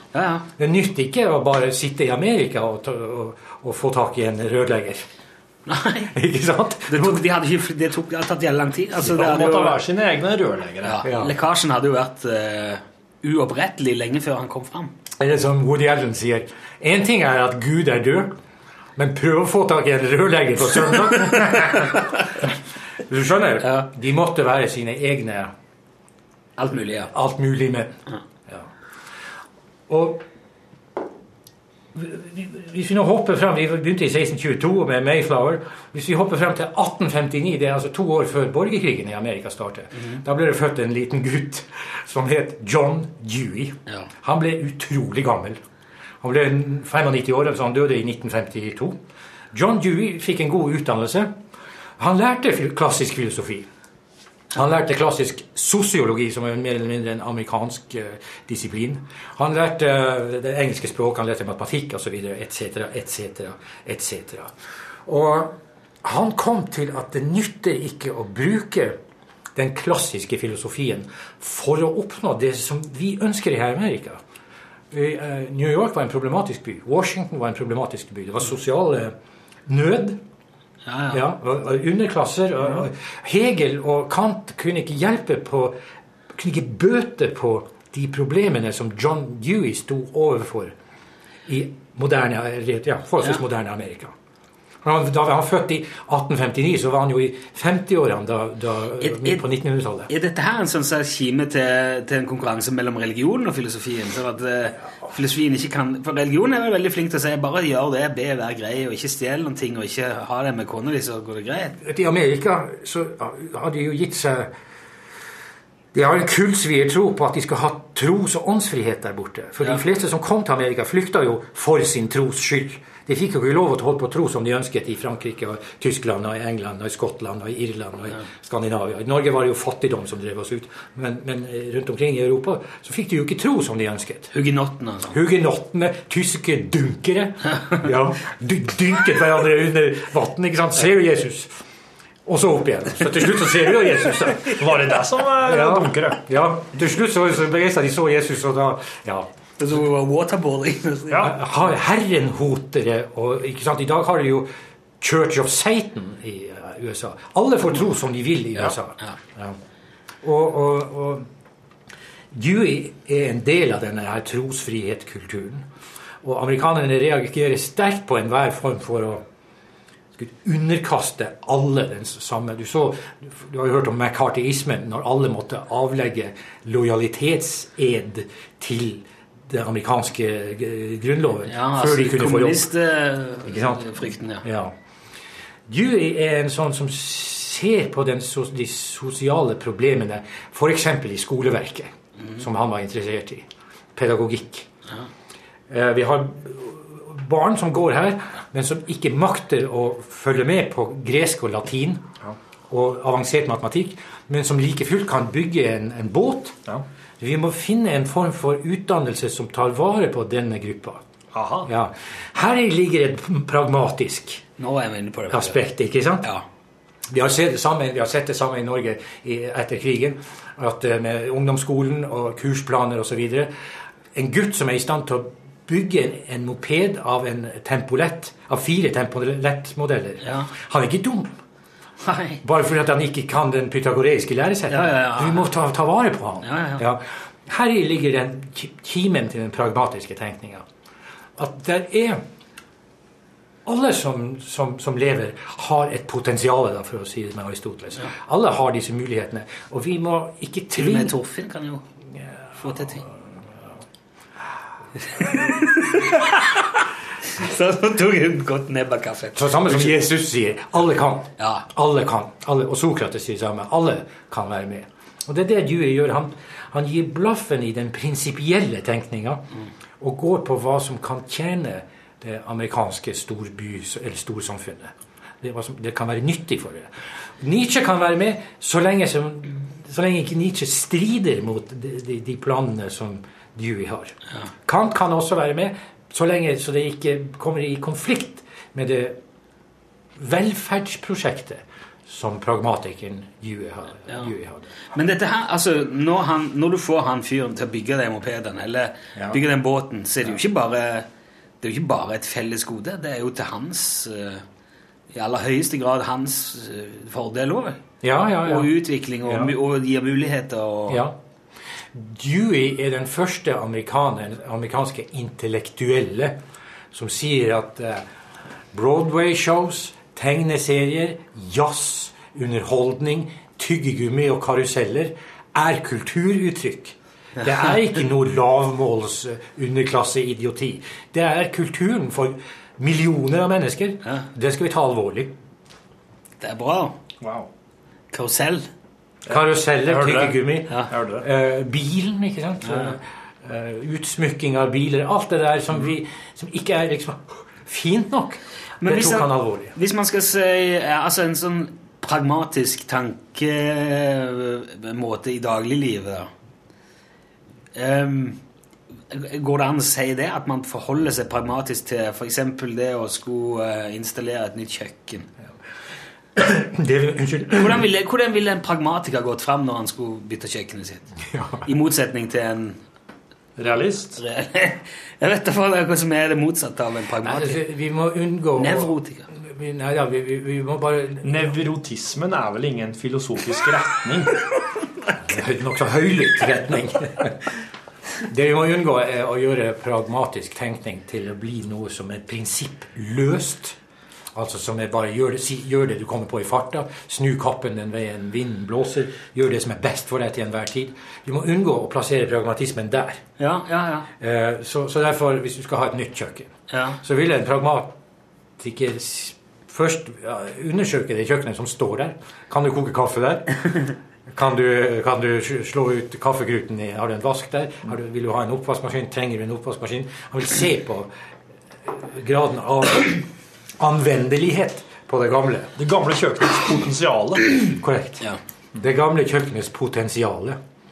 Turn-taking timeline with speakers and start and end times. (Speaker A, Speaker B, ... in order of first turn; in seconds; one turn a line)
Speaker A: 0.1-0.5
Speaker B: 0.6-5.0
Speaker A: 5.7-6.2
Speaker B: 6.1-7.2
Speaker A: 6.9-9.8
Speaker C: 9.0-11.0
Speaker A: 10.8-14.9
Speaker B: 11.0-11.3
Speaker B: 15.2-18.3
Speaker B: 19.0-22.5
Speaker A: 20.9-21.8
Speaker B: 23.1-25.5
Speaker A: 26.6-27.1
Speaker B: 27.1-28.0
Speaker B: 29.9-30.2
Speaker B: 31.9-45.6
Speaker B: 46.2-49.0
Speaker B: 49.5-51.3
Speaker B: 52.0-53.7
Speaker B: 54.5-64.5
Speaker B: 65.1-69.0
Speaker B: 69.6-74.2
Speaker B: 74.9-79.1
Speaker B: 79.7-80.2
Speaker A: 80.9-81.2
Speaker B: 81.1-85.8
Speaker B: 86.3-90.7
Speaker B: 91.5-94.1
Speaker B: 94.8-100.1
Speaker A: 99.0-99.5
Speaker A: 100.1-111.8
Speaker B: 111.8-114.5
Speaker B: 115.9-134.3
Speaker A: 134.3-135.2
Speaker B: 135.1-141.5
Speaker B: 142.3-144.6
Speaker A: 144.2-144.5
Speaker C: 144.6-146.2
Speaker B: 145.4-149.3
Speaker A: 149.6-151.3
Speaker B: 151.2-154.5
Speaker B: 155.0-159.6
Speaker B: 160.2-161.3
Speaker B: 162.3-165.7
Speaker B: 166.2-169.2
Speaker B: 170.2-182.7
Speaker A: 181.5-184.4
Speaker B: 183.5-184.7
Speaker B: 185.7-194.7
Speaker B: 195.7-202.1
Speaker B: 202.7-206.6
Speaker B: 207.2-211.0
Speaker C: 211.3-211.7
Speaker B: 211.7-214.4
Speaker A: 214.6-215.6
Speaker B: 215.3-216.3
Speaker B: 217.1-223.5
Speaker B: 224.2-231.3
Speaker A: 230.2-230.5
Speaker A: 232.0-232.4
Speaker B: 232.4-240.7
Speaker A: 234.7-235.5
Speaker A: 236.4-236.8
Speaker B: 241.4-242.2
Speaker B: 243.7-251.2
Speaker A: 250.7-251.8
Speaker A: 252.6-253.1
Speaker A: 255.1-260.1
Speaker B: 259.4-269.4
Speaker A: 261.4-261.7
Speaker B: 270.0-276.9
Speaker B: 277.4-284.1
Speaker B: 284.7-289.2
Speaker B: 290.2-294.7
Speaker A: 294.9-301.1
Speaker A: 301.6-304.4
Speaker A: 305.1-307.8
Speaker B: 308.0-308.7
Speaker A: 308.4-311.1
Speaker B: 309.2-309.5
Speaker B: 310.9-311.1
Speaker B: 311.9-316.4
Speaker B: 316.9-318.1
Speaker B: 318.7-335.3
Speaker A: 327.4-327.9
Speaker A: 336.4-337.0
Speaker C: 337.2-337.5
Speaker A: 338.1-338.7
Speaker B: 339.3-349.7
Speaker C: 339.3-341.3
Speaker A: 342.6-343.0
Speaker A: 348.8-356.3
Speaker A: 357.8-358.4
Speaker A: 359.1-365.3
Speaker B: 366.4-367.9
Speaker A: 367.5-371.1
Speaker B: 371.3-371.6
Speaker A: 371.6-372.8
Speaker C: 373.6-374.2
Speaker A: 374.2-377.6
Speaker B: 377.2-381.5
Speaker A: 378.6-379.3
Speaker C: 381.2-384.4
Speaker B: 385.2-387.4
Speaker B: 388.3-393.8
Speaker B: 394.3-403.2
Speaker A: 403.4-404.1
Speaker B: 404.2-406.5
Speaker A: 406.7-407.0
Speaker B: 407.0-407.9
Speaker B: 408.6-421.1
Speaker B: 421.9-423.3
Speaker B: 423.8-425.7
Speaker C: 425.8-427.6
Speaker B: 427.7-428.2
Speaker B: 428.8-430.6